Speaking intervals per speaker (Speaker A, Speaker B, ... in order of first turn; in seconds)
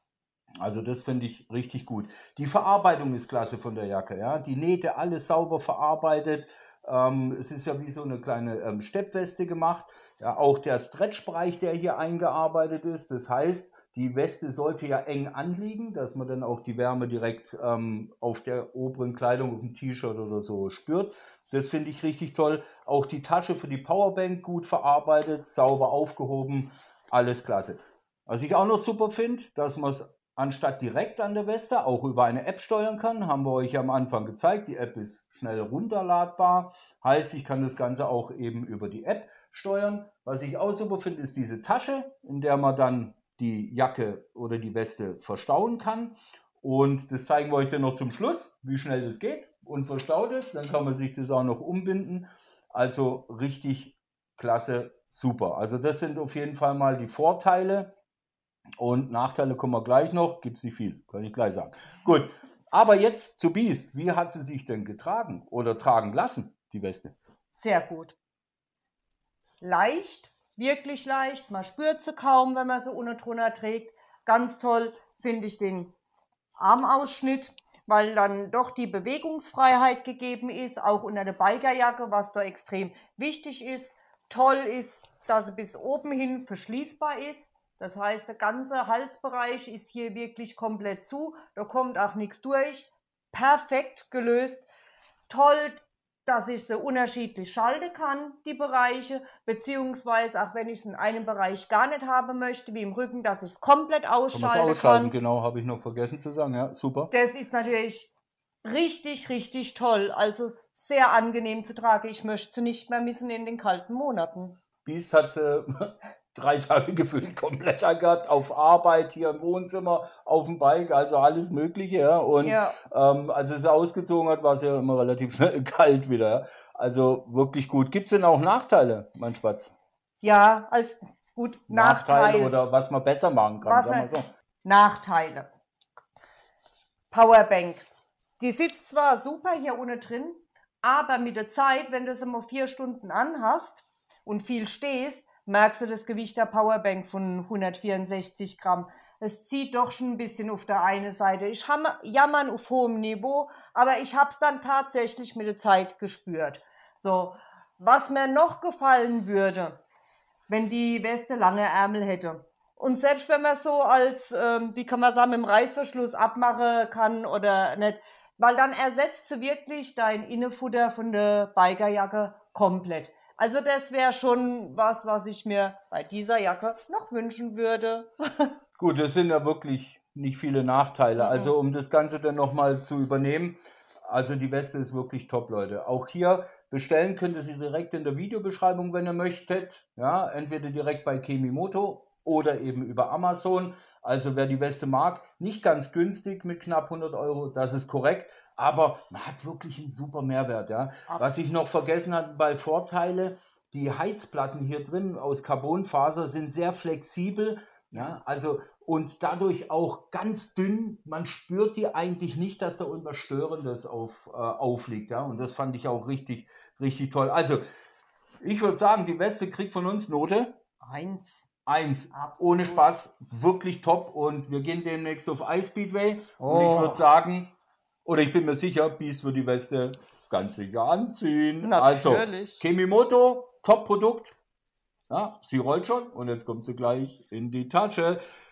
Speaker A: 0.6-57.9, 58.8-67.2, 104.3-107.1, 114.8-129.7, 131.7-134.3, 178.8-217.6, 218.4-220.6, 221.7-227.5, 228.1-234.3, 235.1-238.2
Speaker B: 67.5-68.2, 69.6-75.9, 76.6-94.7, 95.3-105.2, 107.1-108.1, 108.7-114.6, 122.4-122.8, 130.2-132.6, 133.6-135.5, 137.1-137.9, 138.4-159.8, 160.5-178.6, 181.2-181.5, 220.8-221.5, 222.1-222.9, 226.4-227.0, 231.6-232.6